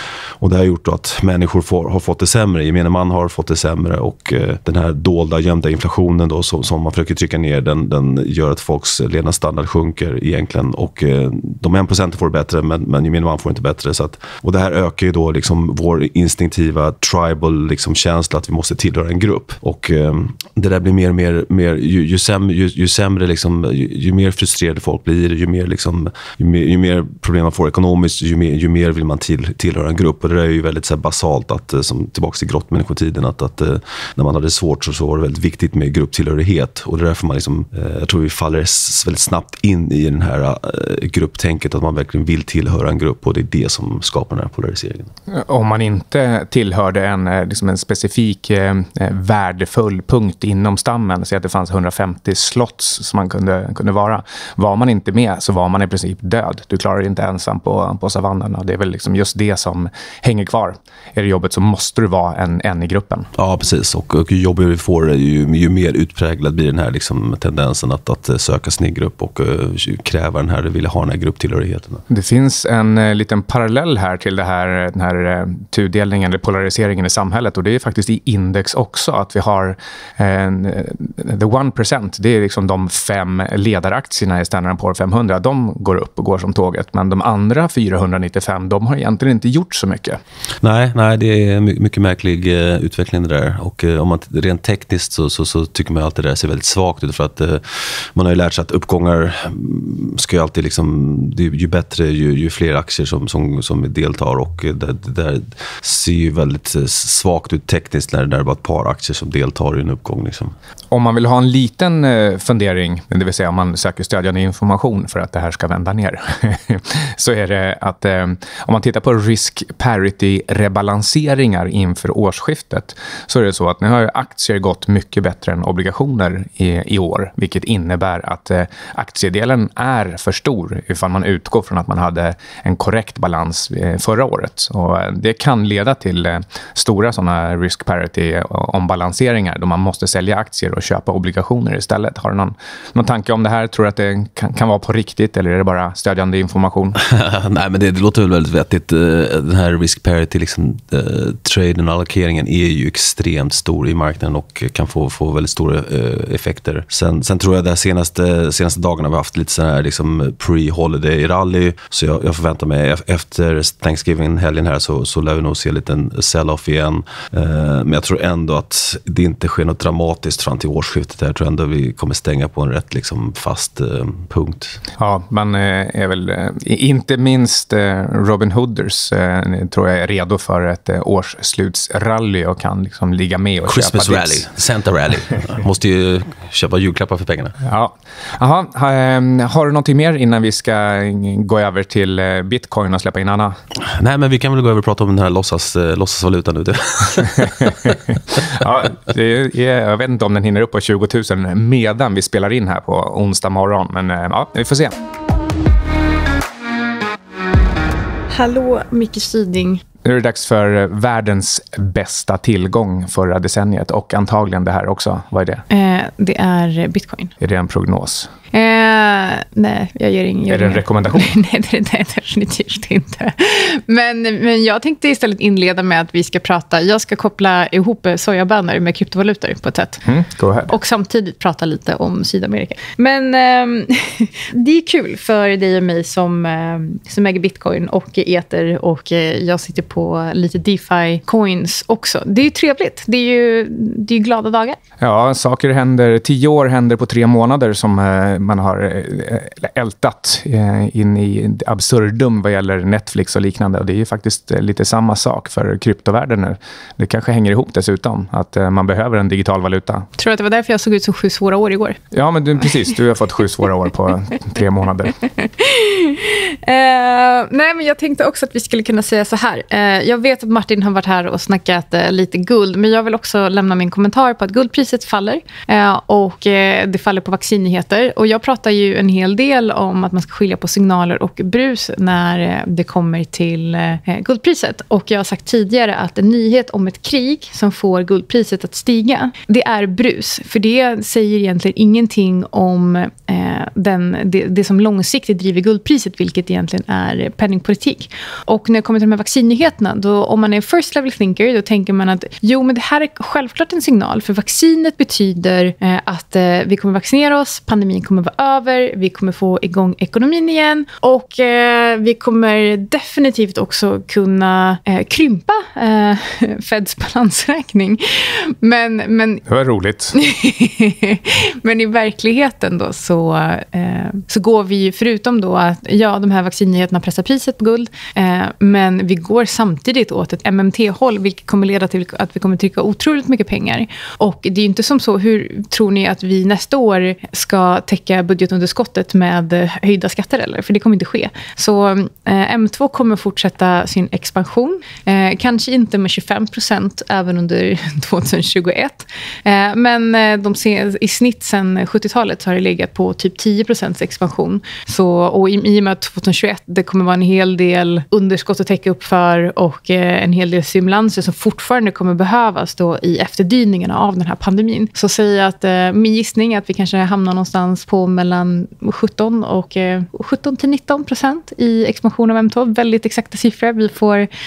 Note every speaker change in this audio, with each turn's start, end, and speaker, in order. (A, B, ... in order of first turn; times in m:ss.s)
0:00.4-0:45.1 A
0:45.3-1:03.3 B
1:03.4-1:12.0 A
1:12.1-1:30.2 B
1:30.6-1:50.5 A
1:50.9-2:27.0 B
2:27.0-2:54.8 A
2:55.0-3:04.4 B
3:03.6-3:07.6 A
3:07.6-3:13.6 B
3:13.8-3:18.4 A
3:18.3-3:25.0 B
3:28.3-3:29.8 C
3:30.0-3:35.6 B
3:35.7-3:37.3 C
3:37.4-3:38.3 B
3:38.5-3:50.0 C
3:40.5-3:41.3 B
3:50.0-3:50.7 B
3:50.6-4:04.8 C
4:05.0-4:20.1 B
4:20.2-4:22.0 C
4:22.1-4:25.2 B
4:25.4-5:19.4 C
5:19.5-5:20.2 B
5:20.1-6:14.3 C